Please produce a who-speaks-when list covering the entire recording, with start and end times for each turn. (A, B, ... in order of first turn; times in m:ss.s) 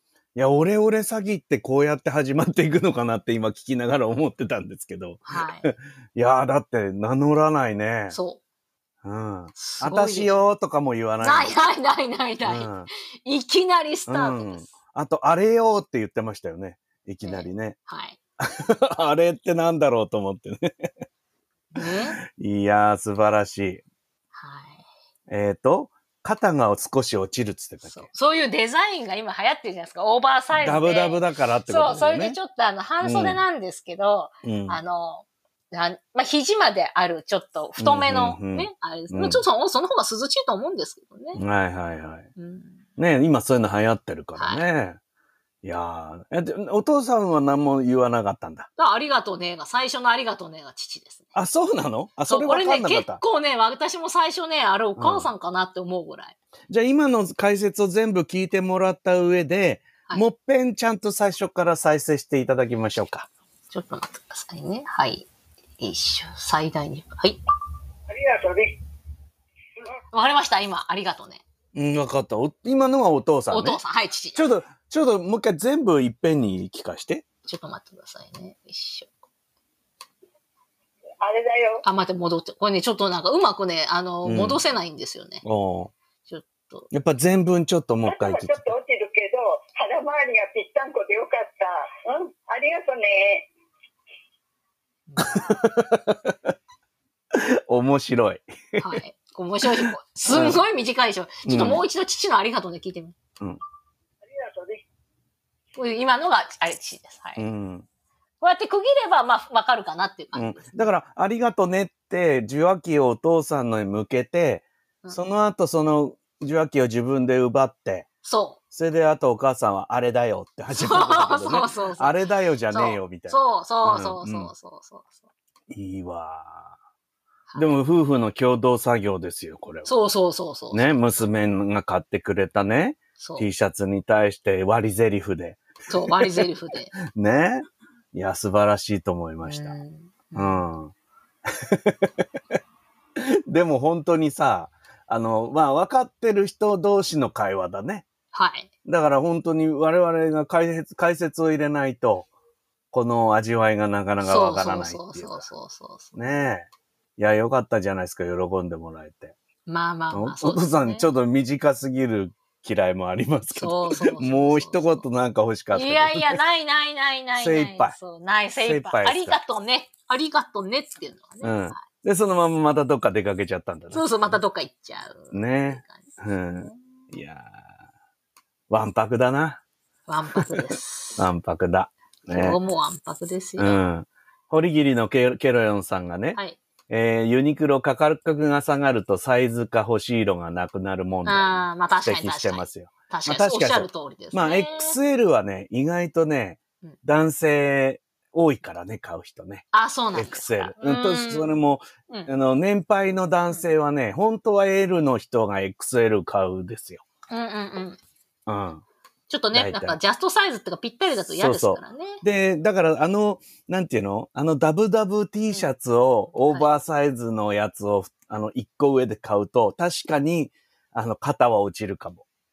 0:00.3-0:08.2 A
0:05.2-0:05.7 B
0:08.1-0:08.4 B
0:09.0-0:11.6 A
0:09.5-0:10.4 B
0:11.2-0:14.7 B
0:12.4-0:12.9 A
0:14.1-0:17.8 A
0:17.2-0:18.2 B
0:18.4-0:20.9 A
0:21.7-0:22.2 B
0:21.8-0:23.8 A
0:24.3-0:24.8 B
0:25.3-0:28.1 A
0:27.8-0:41.4 B
0:30.5-0:32.4 A
0:33.0-0:33.4 A
0:34.4-0:34.8 A
0:37.8-0:39.4 A
0:41.3-0:42.3 A
0:42.4-0:42.8 B
0:43.0-0:45.0 A
0:44.4-0:44.6 B
0:45.6-0:48.7 A
0:48.8-0:51.3 B
0:51.3-0:53.2 A
0:52.3-0:56.4 B
0:55.0-0:55.3 A
0:56.7-1:03.3 A
1:03.7-1:05.3 B
1:05.8-1:07.4 B
1:08.1-1:08.8 C
1:10.1-1:11.4 B
1:11.7-1:13.8 A
1:13.5-1:14.4 B
1:14.3-1:17.2 A
1:17.4-1:19.1 B
1:21.2-1:21.8 C
1:21.8-1:25.4 B
1:24.2-1:24.6 A
1:25.4-1:25.9 A
1:26.3-1:26.9 B
1:26.9-1:28.7 A
1:28.0-1:33.5 C
1:35.1-1:35.4 B
1:35.2-1:36.5 A
1:37.3-1:39.0 A
1:38.8-1:43.2 B
1:39.6-1:40.6 A
1:41.4-1:41.8 A
1:44.2-1:44.8 C
1:45.8-1:47.5 B
1:47.4-1:47.9 A
1:48.4-1:50.7 B
1:50.3-1:58.1 A
1:58.2-1:58.6 B
1:58.7-2:04.5 A
2:00.7-2:05.2 B
2:05.7-2:06.7 A
2:07.5-2:07.7 B
2:07.5-2:09.9 A
2:09.8-2:11.2 B
2:10.7-2:16.4 A
2:13.2-2:13.5 B
2:15.9-2:16.9 B
2:17.0-2:19.8 A
2:19.4-2:20.6 B
2:20.3-2:20.9 A
2:21.5-2:22.2 A
2:23.2-2:28.0 A
2:28.3-2:28.7 B
2:28.8-2:32.3 A
2:32.9-2:35.5 A
2:34.2-2:36.2 B
2:36.1-2:39.4 A
2:39.7-2:41.1 B
2:40.1-2:46.4 A
2:43.6-2:45.0 B
2:45.7-2:51.8 B
2:47.4-2:48.0 A
2:48.6-2:49.4 A
2:51.4-2:54.4 A
2:53.9-2:57.0 B
2:55.3-2:57.6 A
2:58.7-2:59.6 A
3:00.1-3:01.3 B
3:01.2-3:02.6 A
3:02.3-3:03.8 B
3:03.6-3:27.0 A
3:11.2-3:15.0 B
3:19.7-3:21.5 B
3:27.3-3:28.0 B
3:28.5-3:28.8 A
3:29.3-3:32.2 B
3:29.5-3:30.0 A
3:31.3-3:42.2 A
3:36.5-3:36.7 B